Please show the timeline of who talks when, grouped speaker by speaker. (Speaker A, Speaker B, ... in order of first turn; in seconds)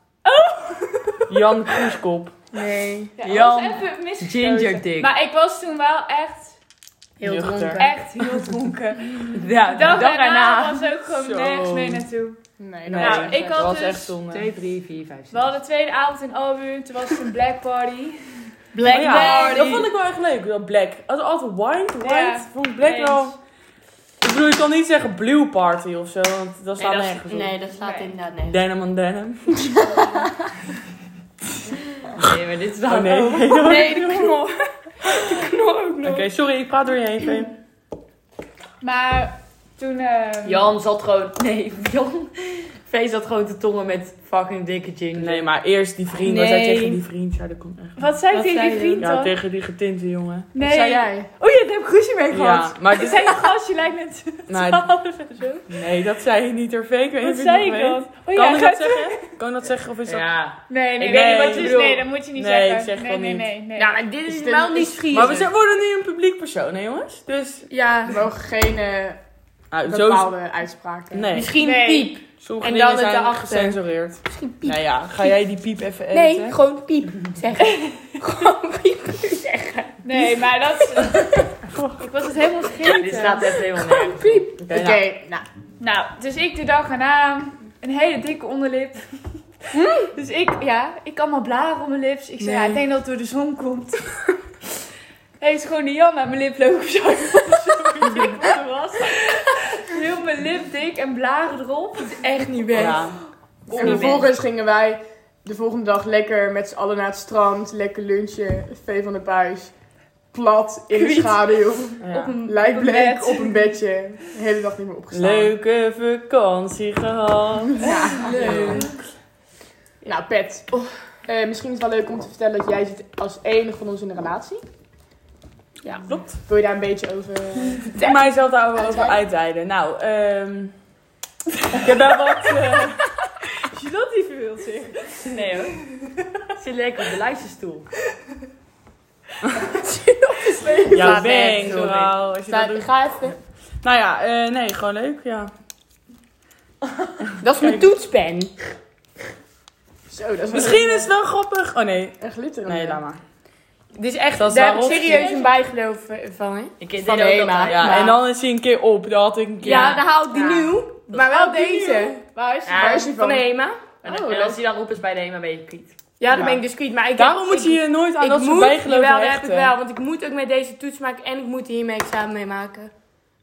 Speaker A: 0.2-1.3, 3.2-6.5, 7.7-12.4, 12.9-14.1, 15.3-18.2, 18.8-19.8, 22.0-23.3, 27.8-28.2, 29.8-30.2, 38.8-40.7, 48.0-49.3, 50.5-55.6, 57.2-59.3, 60.7-64.0, 71.5-72.2, 77.6-78.1, 80.0-83.6, 85.8-89.0, 89.7-94.1, 95.4-103.1, 103.7-104.3, 111.0-111.3, 112.3-113.7, 133.6-135.3
Speaker B: 1.3-2.3, 7.2-7.9, 11.1-12.0, 12.9-14.5, 18.9-23.3, 24.2-27.6, 28.4-29.8, 32.9-34.4, 36.0-37.5, 45.1-48.1, 49.0-50.5, 52.3-53.5, 54.5-54.9, 55.7-60.3, 61.0-63.5, 65.1-67.7, 69.7-70.3, 71.1-71.6, 72.4-76.6, 84.6-85.0, 102.7-103.2, 112.0-112.4, 115.1-118.8, 126.1-126.4, 128.0-130.7, 131.7-133.0, 140.9-142.9, 143.8-145.5, 147.5-147.9, 150.5-153.2, 154.4-155.3, 157.7-160.0, 167.2-169.7
Speaker C: 2.5-3.1, 7.2-8.0, 27.2-28.6, 33.5-36.3, 46.4-46.9, 48.6-48.9, 63.8-65.5, 67.7-68.2, 71.3-74.8, 76.1-79.9, 83.8-85.3, 102.2-103.0, 117.8-118.9, 139.6-143.3, 147.4-148.5, 153.9-158.2, 159.6-164.6, 166.2-172.9
Speaker D: 3.2-5.1, 9.2-10.8, 14.3-15.5, 18.7-19.9, 26.8-27.2, 32.1-33.8, 40.4-45.5, 48.3-49.0, 60.0-62.1, 82.8-84.5, 103.7-104.2, 135.2-135.8, 136.6-137.9, 141.4-142.1, 156.8-158.1, 159.7-160.0, 161.1-161.5, 162.6-163.1, 164.0-166.0
Speaker E: 12.6-13.7, 50.6-51.3, 64.2-65.1, 68.1-69.2, 69.8-71.3, 84.7-85.4, 103.7-109.7, 110.3-115.5, 117.8-118.9, 120.0-120.7, 121.2-124.6, 126.4-128.1, 140.7-141.2, 150.1-151.1, 152.2-153.0, 160.3-160.7, 162.7-163.4, 166.3-166.6